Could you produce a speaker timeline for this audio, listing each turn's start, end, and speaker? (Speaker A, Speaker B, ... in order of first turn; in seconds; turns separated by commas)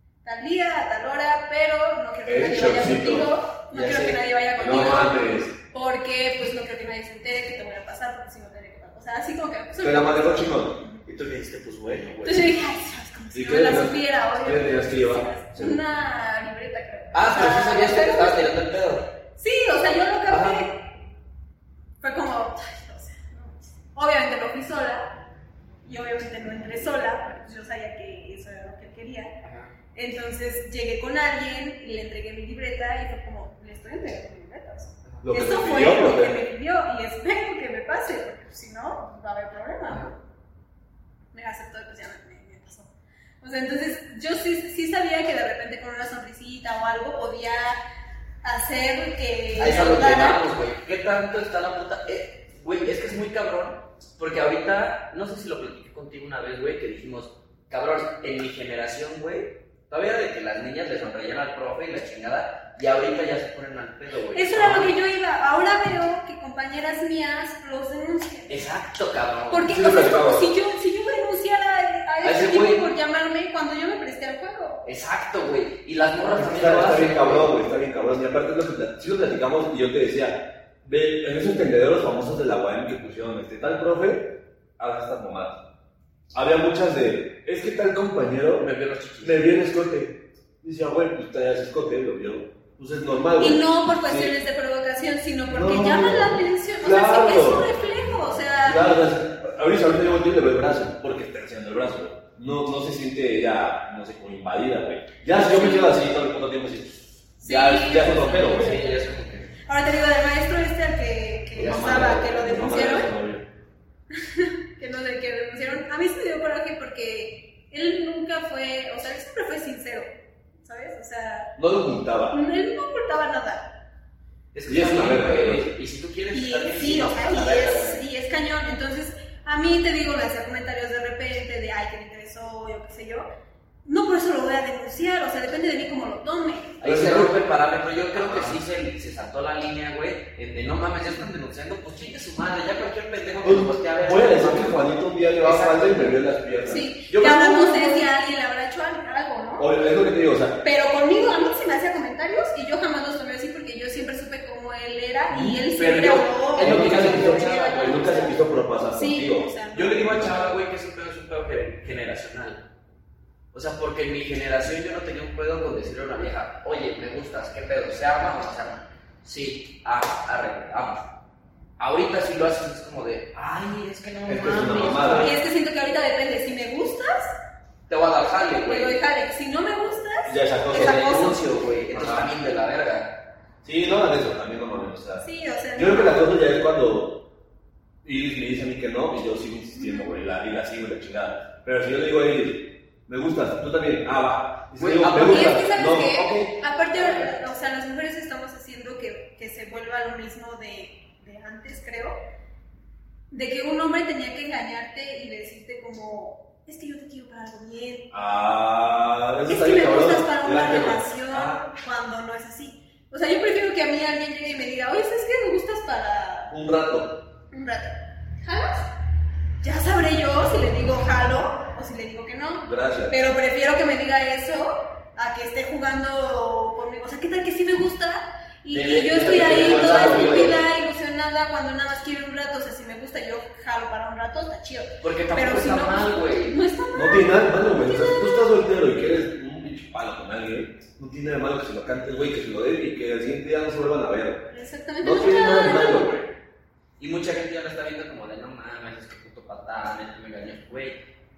Speaker A: 0.2-11.0, Speaker B: 2.2-3.3, Speaker C: 3.7-5.0, Speaker B: 4.6-5.5, Speaker B: 9.8-10.8, Speaker C: 11.1-12.5, Speaker A: 12.2-18.5, Speaker B: 13.3-15.8, Speaker C: 17.1-19.1, Speaker A: 19.4-20.8, Speaker B: 20.3-20.6, Speaker A: 22.0-25.1, Speaker A: 25.9-29.3, Speaker C: 29.4-29.7, Speaker A: 29.9-40.1, Speaker B: 35.2-36.4, Speaker C: 39.9-40.1, Speaker A: 41.3-42.9, Speaker A: 43.4-47.8, Speaker A: 48.4-50.4, Speaker C: 49.6-64.9, Speaker A: 64.3-68.6, Speaker C: 68.5-69.7, Speaker A: 69.5-74.8, Speaker B: 69.7-70.5, Speaker C: 72.2-72.9, Speaker C: 74.8-77.5, Speaker B: 76.3-85.6, Speaker B: 86.3-88.7, Speaker C: 88.6-89.5, Speaker B: 89.2-94.3, Speaker A: 93.4-99.0, Speaker B: 95.5-97.7, Speaker B: 98.6-108.8, Speaker A: 105.3-105.9, Speaker A: 107.4-109.0, Speaker C: 107.8-109.5, Speaker A: 109.7-113.1, Speaker B: 111.6-113.5, Speaker C: 111.6-112.2, Speaker A: 114.2-121.5, Speaker B: 121.6-122.4, Speaker A: 122.3-123.7, Speaker C: 124.5-128.0, Speaker B: 124.7-125.7, Speaker A: 126.3-133.3, Speaker A: 133.8-136.8, Speaker C: 136.8-144.9, Speaker B: 136.8-137.4, Speaker B: 138.1-138.6, Speaker B: 143.4-147.5, Speaker C: 145.4-146.2, Speaker A: 146.7-149.7, Speaker C: 147.3-148.0, Speaker B: 149.6-150.6, Speaker A: 150.6-158.4, Speaker C: 155.3-158.2, Speaker B: 156.6-160.6, Speaker A: 158.9-160.1, Speaker C: 159.7-162.6, Speaker C: 163.5-171.1, Speaker C: 171.8-175.3, Speaker B: 174.3-175.3, Speaker A: 175.1-177.3, Speaker C: 177.9-179.0, Speaker A: 178.7-181.4, Speaker B: 180.3-181.1, Speaker C: 180.7-183.1, Speaker B: 181.9-182.3, Speaker B: 183.6-187.2, Speaker A: 185.2-186.2, Speaker B: 188.0-197.2, Speaker A: 189.8-190.2, Speaker C: 194.8-195.6, Speaker A: 195.1-202.2, Speaker A: 203.3-208.1, Speaker B: 208.1-211.7, Speaker A: 209.5-216.5, Speaker B: 216.5-217.2, Speaker A: 217.5-218.9, Speaker A: 219.6-238.5, Speaker B: 222.6-223.2, Speaker C: 228.7-230.6, Speaker B: 229.2-230.6, Speaker C: 235.0-236.6, Speaker B: 236.9-244.5, Speaker A: 244.5-246.2, Speaker B: 245.0-246.2, Speaker C: 247.0-251.0